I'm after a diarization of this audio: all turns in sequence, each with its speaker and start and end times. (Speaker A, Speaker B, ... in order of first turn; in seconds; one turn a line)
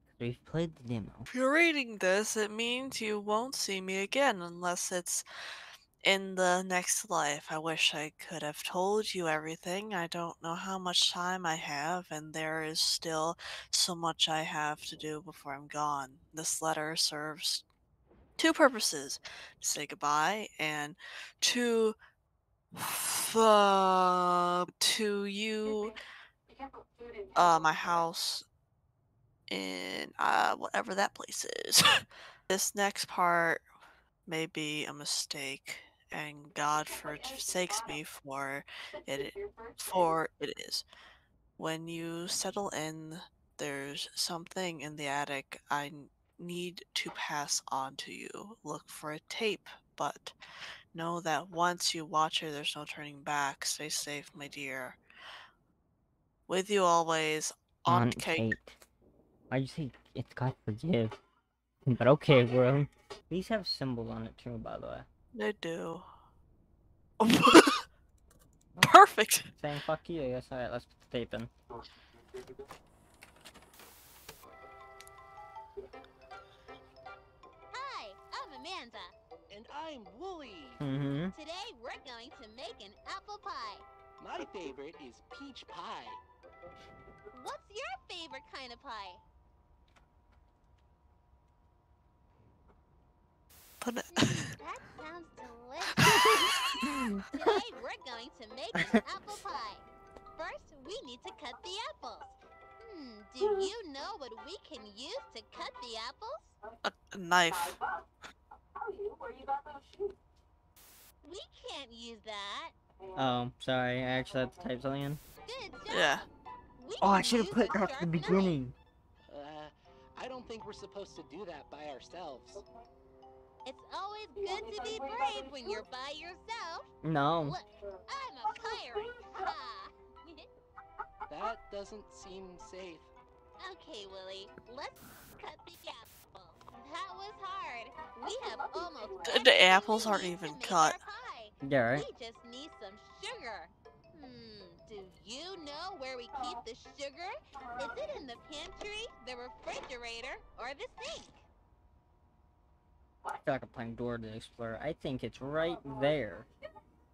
Speaker A: 0.2-1.3
Speaker B: 1.3-5.2
Speaker B: 6.0-17.6
Speaker B: 18.4-22.0
Speaker B: 22.7-26.0
Speaker B: 27.4-28.4
Speaker B: 29.5-33.6
Speaker B: 34.3-40.8
Speaker B: 41.6-50.3
Speaker B: 50.9-55.0
Speaker B: 56.5-58.5
Speaker A: 57.9-58.8
Speaker A: 59.5-61.1
Speaker A: 61.9-65.0
Speaker B: 65.3-66.0
Speaker B: 67.2-67.8
Speaker B: 68.8-69.5
Speaker A: 69.6-71.5
Speaker C: 77.7-79.1
Speaker D: 79.5-80.8
Speaker A: 80.8-81.3
Speaker C: 81.3-83.8
Speaker D: 84.2-86.2
Speaker C: 87.3-89.2
Speaker B: 93.8-94.5
Speaker C: 94.1-99.8
Speaker B: 96.0-96.8
Speaker C: 100.3-106.6
Speaker B: 106.8-107.8
Speaker C: 111.2-112.7
Speaker A: 113.2-115.2
Speaker C: 115.4-116.2
Speaker B: 115.9-116.2
Speaker C: 116.8-118.5
Speaker A: 117.0-118.8
Speaker D: 119.2-122.6
Speaker C: 123.6-126.9
Speaker A: 127.0-127.6
Speaker C: 127.4-130.5
Speaker D: 131.3-133.1
Speaker C: 133.6-151.4
Speaker B: 139.2-141.0
Speaker A: 141.6-142.1
Speaker A: 153.4-156.5